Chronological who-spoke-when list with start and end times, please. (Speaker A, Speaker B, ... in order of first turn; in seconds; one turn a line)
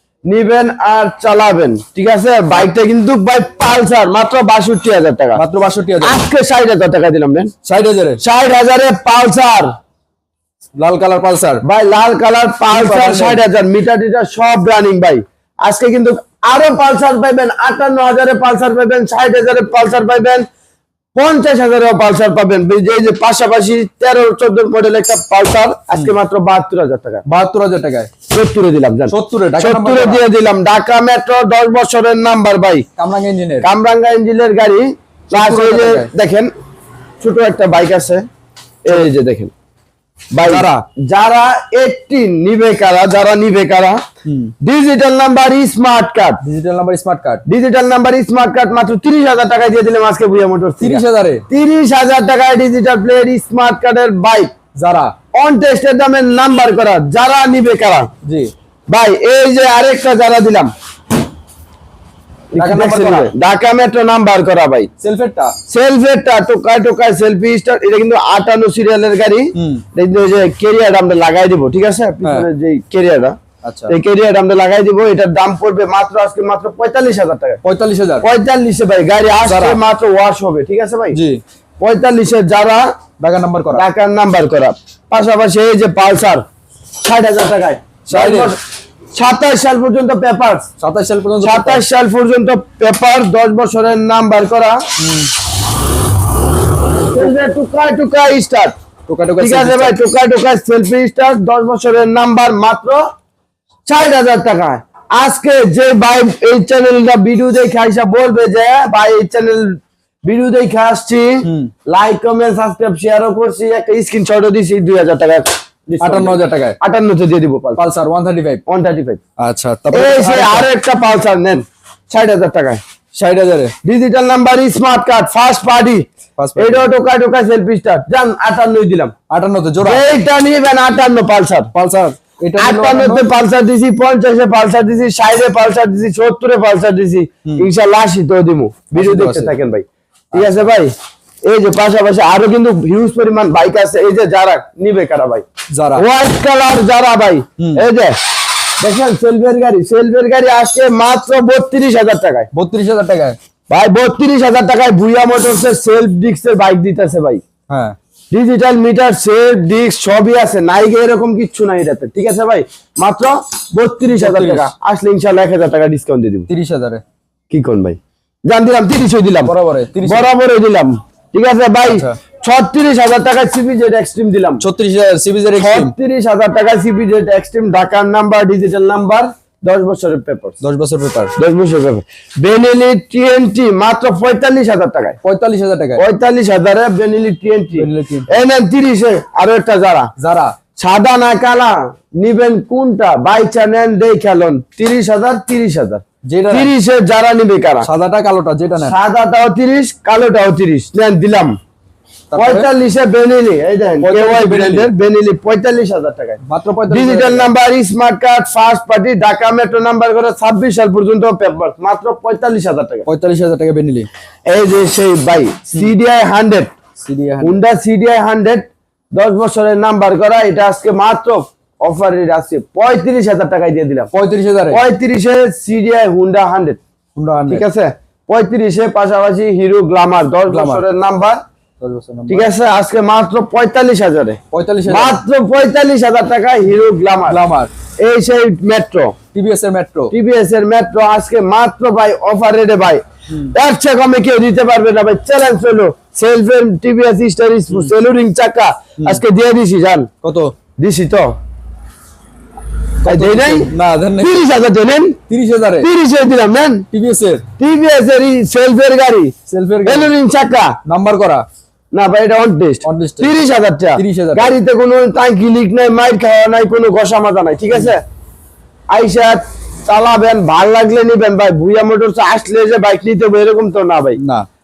Speaker A: 0.3-5.4
Speaker B: 5.4-6.2
Speaker A: 6.0-7.5
Speaker B: 7.6-8.2
Speaker A: 8.2-9.7
Speaker B: 10.8-11.6
Speaker A: 11.6-20.5
Speaker B: 12.7-13.4
Speaker A: 21.1-27.2
Speaker B: 27.2-28.1
Speaker A: 28.3-32.9
Speaker B: 29.1-30.2
Speaker B: 33.0-33.7
Speaker A: 33.6-36.5
Speaker B: 35.3-36.1
Speaker A: 37.2-38.3
Speaker A: 38.8-39.5
Speaker A: 40.3-44.0
Speaker B: 40.4-40.8
Speaker B: 44.2-44.5
Speaker A: 44.6-46.4
Speaker B: 46.4-47.4
Speaker A: 47.5-54.5
Speaker B: 50.8-51.4
Speaker B: 54.8-55.1
Speaker A: 55.3-58.1
Speaker B: 58.2-58.5
Speaker A: 58.9-60.7
Speaker A: 62.5-64.9
Speaker B: 62.6-63.3
Speaker B: 65.0-65.6
Speaker A: 65.7-73.4
Speaker B: 69.5-69.8
Speaker B: 72.2-72.5
Speaker B: 73.6-74.0
Speaker A: 73.9-77.6
Speaker B: 77.6-78.3
Speaker A: 78.2-81.2
Speaker B: 79.5-79.8
Speaker B: 81.1-81.4
Speaker A: 81.8-82.9
Speaker B: 83.2-83.8
Speaker A: 83.7-86.4
Speaker A: 87.0-88.6
Speaker B: 88.1-88.6
Speaker A: 89.1-90.7
Speaker B: 90.8-91.8
Speaker A: 91.4-94.8
Speaker B: 95.0-95.3
Speaker A: 97.0-98.8
Speaker B: 99.1-100.0
Speaker A: 99.4-103.1
Speaker A: 103.9-117.8
Speaker B: 111.4-111.7
Speaker B: 116.0-116.8
Speaker B: 117.8-118.6
Speaker A: 118.7-119.2
Speaker B: 119.4-120.7
Speaker A: 119.9-122.8
Speaker B: 123.1-123.7
Speaker A: 123.8-129.1
Speaker B: 126.4-126.9
Speaker B: 129.3-130.1
Speaker A: 129.8-131.7
Speaker B: 131.7-133.3
Speaker A: 132.6-140.9
Speaker B: 138.9-139.6
Speaker B: 140.3-140.7
Speaker A: 141.4-148.2
Speaker B: 145.7-146.1
Speaker B: 147.6-147.8
Speaker A: 148.8-152.5
Speaker B: 152.5-153.4
Speaker A: 153.7-157.4
Speaker B: 157.7-158.0
Speaker A: 158.3-166.5
Speaker B: 164.1-164.7
Speaker B: 166.5-167.0
Speaker A: 167.5-169.5
Speaker B: 169.4-170.3
Speaker A: 170.0-174.6
Speaker B: 171.9-172.2
Speaker B: 174.6-175.9
Speaker A: 175.6-180.6
Speaker B: 180.6-181.3
Speaker A: 181.4-185.2
Speaker B: 185.2-186.0
Speaker A: 186.0-190.1
Speaker B: 187.8-188.3
Speaker B: 190.2-190.6
Speaker A: 190.8-197.9
Speaker B: 196.3-196.7
Speaker B: 197.8-199.0
Speaker A: 198.8-201.6
Speaker B: 202.3-202.7
Speaker A: 202.3-213.1
Speaker B: 204.0-204.9
Speaker B: 206.4-207.5
Speaker B: 213.1-214.1
Speaker A: 214.5-216.7
Speaker B: 217.0-217.6
Speaker A: 217.4-224.1
Speaker B: 224.1-224.8
Speaker A: 224.7-226.8
Speaker B: 227.2-227.7
Speaker A: 227.5-231.4
Speaker B: 230.5-230.8
Speaker B: 231.8-232.5
Speaker A: 232.3-237.4
Speaker B: 234.5-235.2
Speaker B: 237.3-237.7
Speaker A: 238.0-239.2
Speaker B: 239.3-240.1
Speaker A: 240.1-250.1
Speaker B: 243.3-243.6
Speaker B: 250.2-250.6
Speaker A: 250.8-251.3
Speaker B: 253.0-254.5
Speaker A: 253.0-255.2
Speaker B: 255.3-255.9
Speaker A: 255.8-256.9
Speaker B: 256.9-257.4
Speaker A: 257.6-259.3
Speaker B: 259.5-260.1
Speaker A: 259.9-260.8
Speaker B: 260.9-261.4
Speaker A: 261.9-268.0
Speaker B: 262.8-263.4
Speaker B: 263.9-264.6
Speaker A: 268.9-274.2
Speaker B: 274.2-274.5